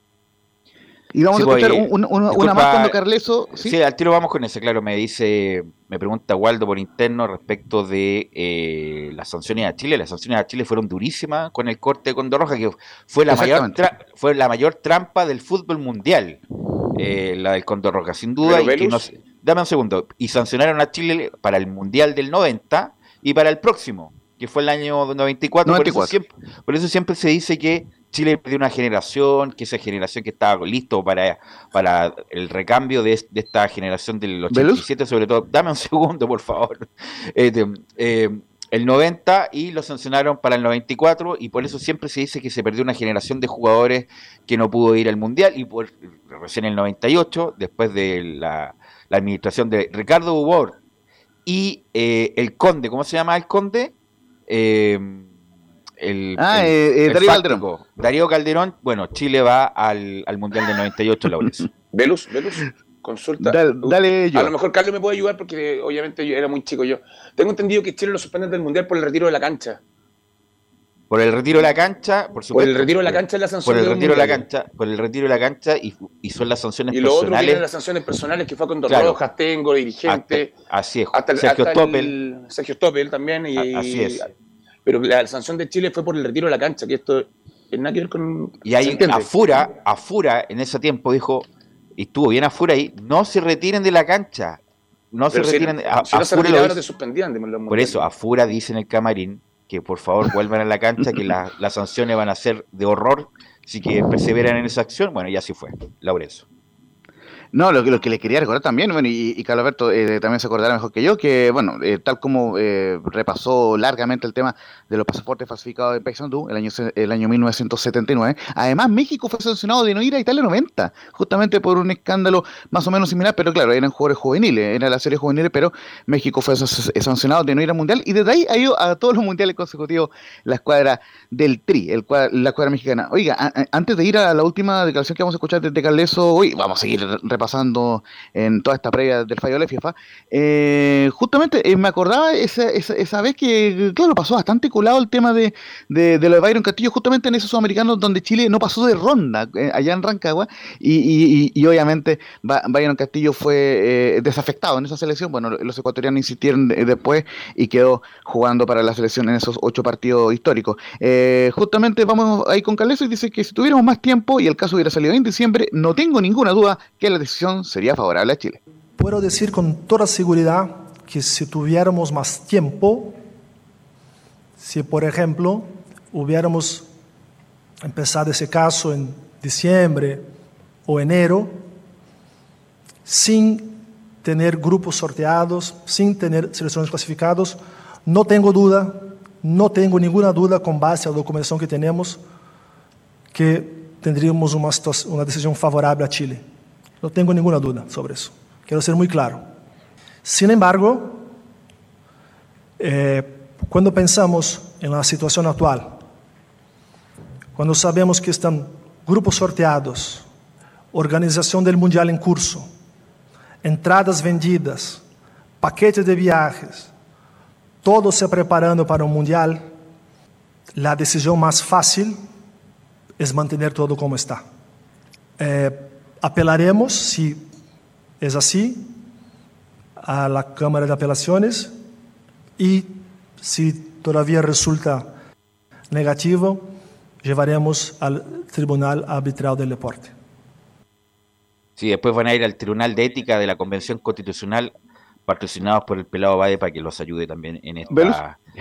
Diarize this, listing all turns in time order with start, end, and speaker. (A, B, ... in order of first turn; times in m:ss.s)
0:01.1-0:03.7 A
0:01.3-0:03.0 B
0:03.6-0:16.4 B
0:13.3-0:13.8 A
0:17.0-0:50.8 B
0:18.4-0:19.0 C
0:25.6-0:26.1 A
0:34.5-0:34.8 A
0:51.4-0:53.9 B
0:54.5-0:55.3 B
0:56.0-1:01.6 B
0:56.4-0:57.6 A
1:01.9-1:09.8 C
1:03.4-1:04.5 A
1:11.1-1:17.6 B
1:12.5-1:14.4 C
1:16.9-1:20.5 C
1:18.9-1:19.2 B
1:20.0-1:22.1 B
1:21.1-1:24.3 C
1:23.6-1:24.2 B
1:24.8-1:29.3 C
1:28.6-1:34.6 B
1:35.1-1:36.8 B
1:35.3-1:38.0 C
1:37.7-1:46.4 B
1:47.5-2:48.6 A
2:49.0-2:53.2 D
2:54.6-2:56.8 D
2:57.8-3:00.2 D
3:00.8-3:01.6 D
3:03.0-3:12.2 D
3:13.3-3:16.4 D
3:17.0-3:19.4 D
3:20.2-3:21.3 D
3:22.8-3:26.0 D
3:27.6-3:30.2 D
3:30.9-3:32.7 D
3:33.6-3:35.0 D
3:35.6-3:36.9 D
3:37.8-3:39.7 D
3:40.7-3:42.2 D
3:43.2-3:44.4 D
3:45.4-3:47.4 D
3:48.2-3:48.9 D
3:50.0-3:51.7 D
3:52.6-3:55.1 D
3:55.9-3:56.7 D
3:57.2-4:00.1 D
4:01.8-4:04.7 B
4:05.2-4:08.4 B
4:07.9-4:08.2 A